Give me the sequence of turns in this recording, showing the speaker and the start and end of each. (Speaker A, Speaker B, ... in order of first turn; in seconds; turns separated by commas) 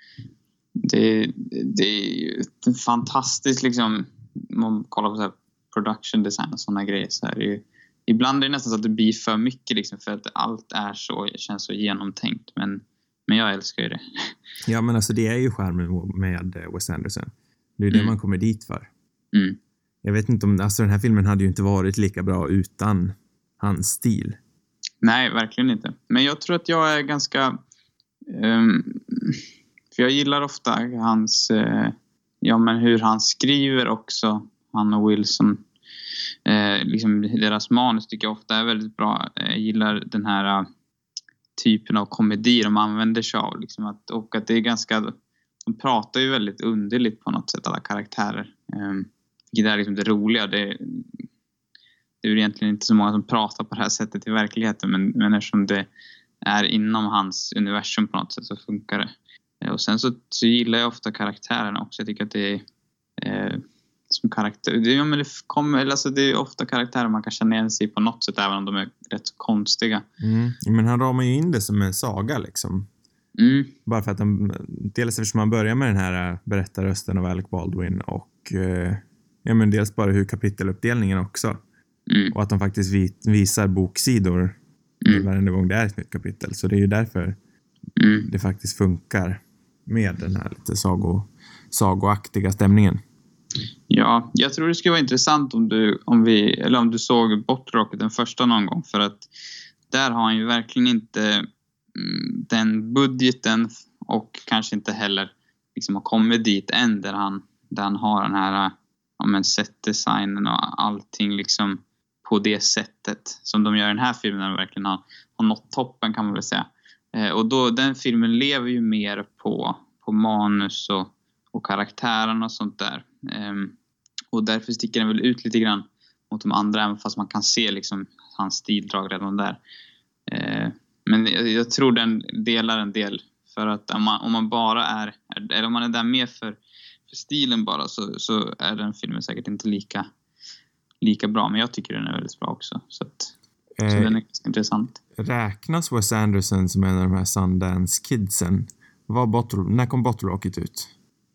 Speaker A: 0.8-14.3, Speaker B: 14.7-18.9, Speaker A: 19.3-19.6, Speaker B: 20.0-24.4, Speaker A: 25.0-27.6, Speaker A: 28.3-29.4, Speaker A: 29.9-35.6, Speaker A: 36.5-40.7, Speaker A: 41.6-51.1, Speaker A: 52.2-55.9, Speaker A: 56.4-62.6, Speaker A: 63.2-70.0, Speaker B: 70.2-72.9, Speaker A: 73.4-73.8, Speaker B: 73.9-81.6, Speaker A: 82.1-82.3, Speaker B: 82.3-84.6, Speaker B: 85.1-87.4, Speaker A: 88.0-88.3, Speaker B: 88.3-93.0, Speaker A: 93.9-99.3, Speaker A: 99.9-123.7, Speaker A: 124.3-129.6, Speaker A: 130.3-140.1, Speaker A: 141.0-143.3, Speaker B: 143.8-144.2, Speaker A: 143.9-145.0, Speaker B: 145.2-150.9